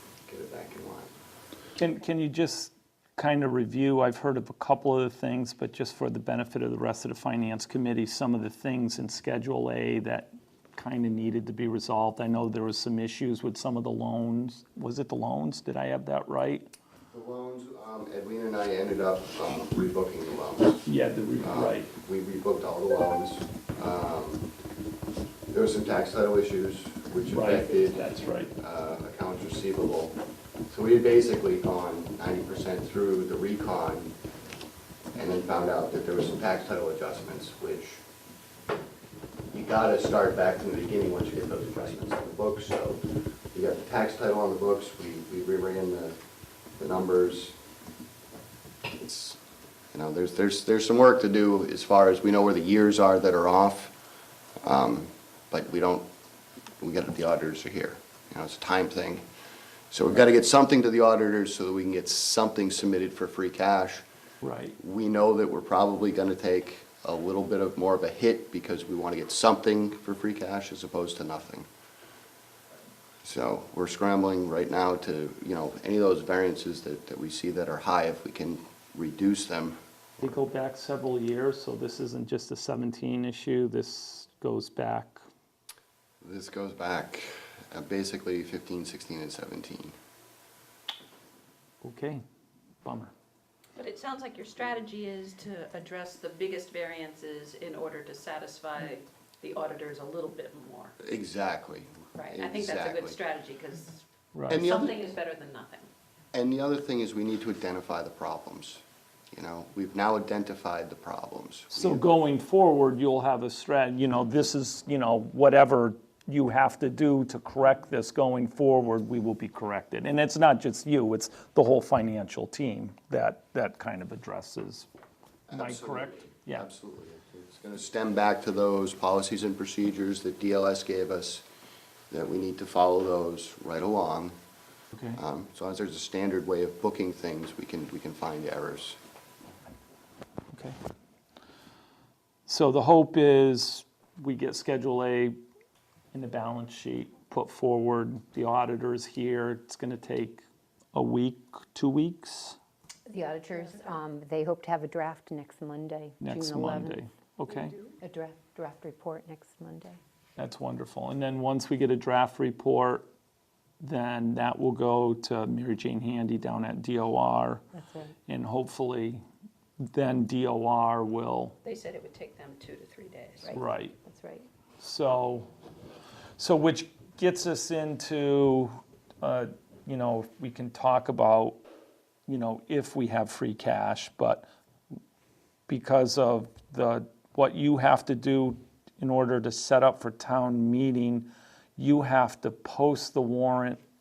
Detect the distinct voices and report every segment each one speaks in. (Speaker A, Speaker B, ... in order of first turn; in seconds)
Speaker A: 0.2-1.1, 17.1-20.8, 21.4-24.5, 25.5-30.2, 30.7-34.1, 35.1-38.0, 39.5-46.2, 46.8-47.5, 48.9-49.4, 49.9-53.9, 54.6-56.0, 56.8-59.2, 59.9-64.0, 64.8-71.7, 73.2-79.8, 86.2-89.9, 101.0-103.2, 104.5-105.0, 106.3-112.1, 125.5-131.4, 132.1-134.3, 135.1-139.0
Speaker B: 1.8-16.7, 20.8-21.9, 27.3-28.5, 64.4-64.8, 80.2-85.2, 91.8-92.2, 92.8-93.1, 104.3-104.7, 111.7-124.8, 125.5-126.7, 134.9-135.2, 142.5-145.4, 146.1-152.6, 156.2-157.7, 160.4-163.1, 163.8-167.6, 168.3-169.2, 169.8-171.5, 173.5-173.9, 174.8-175.5, 176.4-181.6, 182.3-184.4, 185.7-193.8
Speaker C: 93.8-100.9, 102.2-105.9, 153.1-153.9, 157.5-158.0, 171.6-173.6
Speaker D: 153.1-157.0, 158.0-160.0, 167.7-168.1, 173.5-174.5